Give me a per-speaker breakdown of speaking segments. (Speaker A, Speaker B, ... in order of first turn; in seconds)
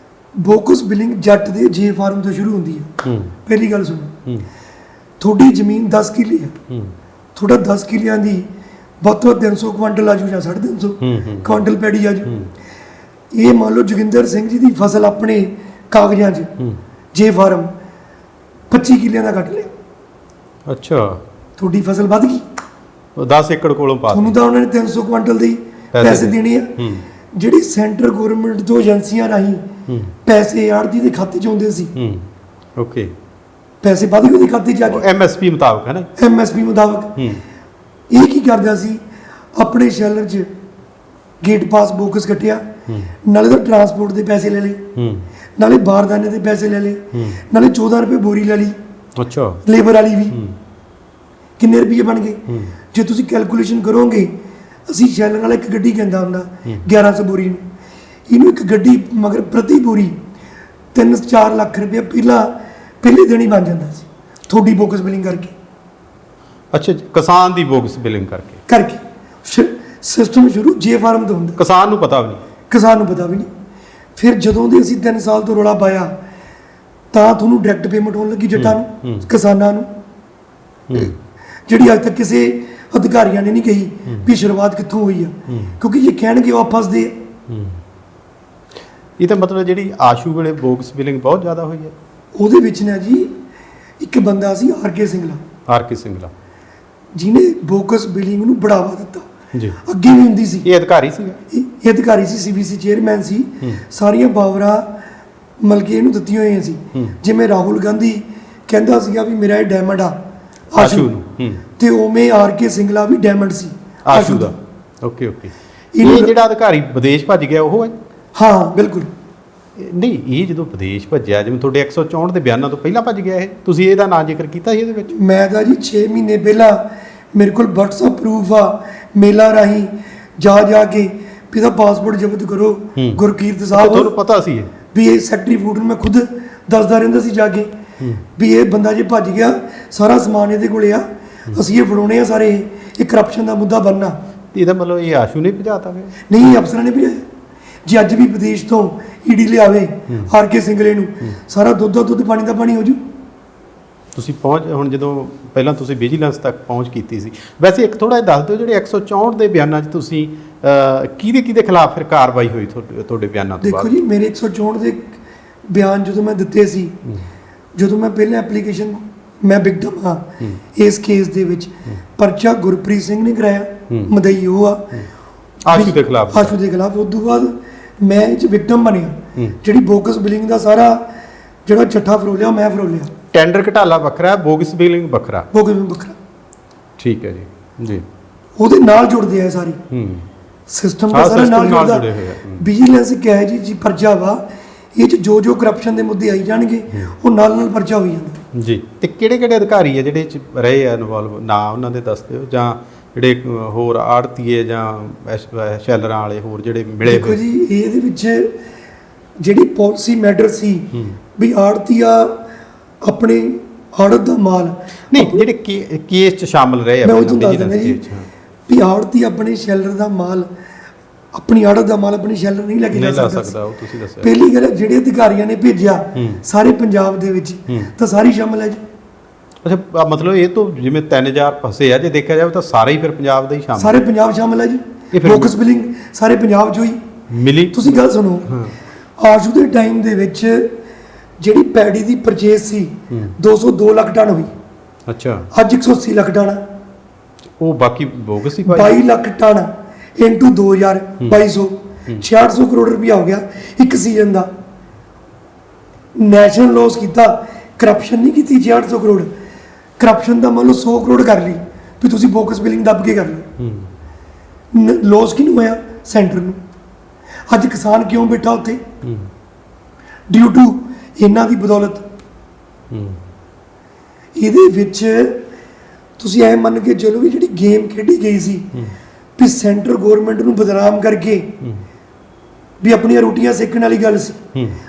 Speaker A: 0.4-2.9, 3.4-4.2, 5.2-6.5, 7.3-8.5, 9.0-12.4, 13.3-16.5, 17.1-17.7, 18.7-19.7, 21.6-22.4, 24.1-26.8, 27.3-29.7, 30.2-31.9, 33.8-35.0, 36.2-37.2, 38.1-39.0, 39.5-40.5, 41.4-42.7, 43.2-44.9, 45.6-48.7, 49.6-50.4, 51.6-54.3, 54.9-57.6, 58.3-60.2, 60.9-65.5, 68.7-71.6, 72.7-73.5, 74.2-76.1, 77.1-79.9, 81.7-87.2, 92.4-93.3, 94.0-95.4, 97.2-99.3, 99.8-100.7, 101.5-104.9, 105.6-110.2, 110.7-111.1, 111.8-114.5, 116.0-116.3, 118.3-119.1, 125.1-134.1, 134.9-137.7, 138.3-144.2, 146.3-147.2, 147.8-153.0, 163.6-167.0, 167.8-175.0, 175.7-181.1, 181.7-183.1, 185.5-186.2, 188.6-189.8, 190.7-194.4, 194.9-198.4, 207.0-208.5, 209.4-212.4, 213.0-215.4, 217.0-218.0, 218.7-220.5, 221.3-223.5, 224.2-228.8, 233.8-237.0, 237.7-238.6, 239.2-240.7, 241.4-244.5, 245.5-246.6, 248.6-254.5, 256.2-259.3, 260.0-263.5, 264.7-266.6, 267.5-268.8, 270.3-272.0, 274.4-275.4, 276.2-278.7, 279.4-281.6, 282.8-284.4
Speaker B: 3.0-3.3, 11.0-11.6, 20.6-21.2, 23.1-24.4, 25.9-27.0, 29.9-30.1, 31.9-33.1, 34.9-36.1, 45.0-45.2, 49.2-49.6, 50.3-50.5, 66.7-68.6, 71.6-72.4, 78.5-79.2, 80.9-81.1, 87.5-87.8, 89.2-91.9, 95.7-96.3, 99.5-99.8, 100.6-101.4, 110.8-111.6, 114.1-117.9, 119.8-125.1, 133.7-134.7, 144.5-146.1, 154.1-163.9, 175.6-176.6, 183.3-185.5, 187.0-188.1, 189.9-190.2, 191.1-192.7, 198.5-207.4, 215.1-218.3, 222.9-224.3, 229.6-234.0, 235.1-235.5, 237.3-238.7, 245.1-245.5, 247.6-249.0, 263.6-263.9, 269.0-269.3, 272.9-273.2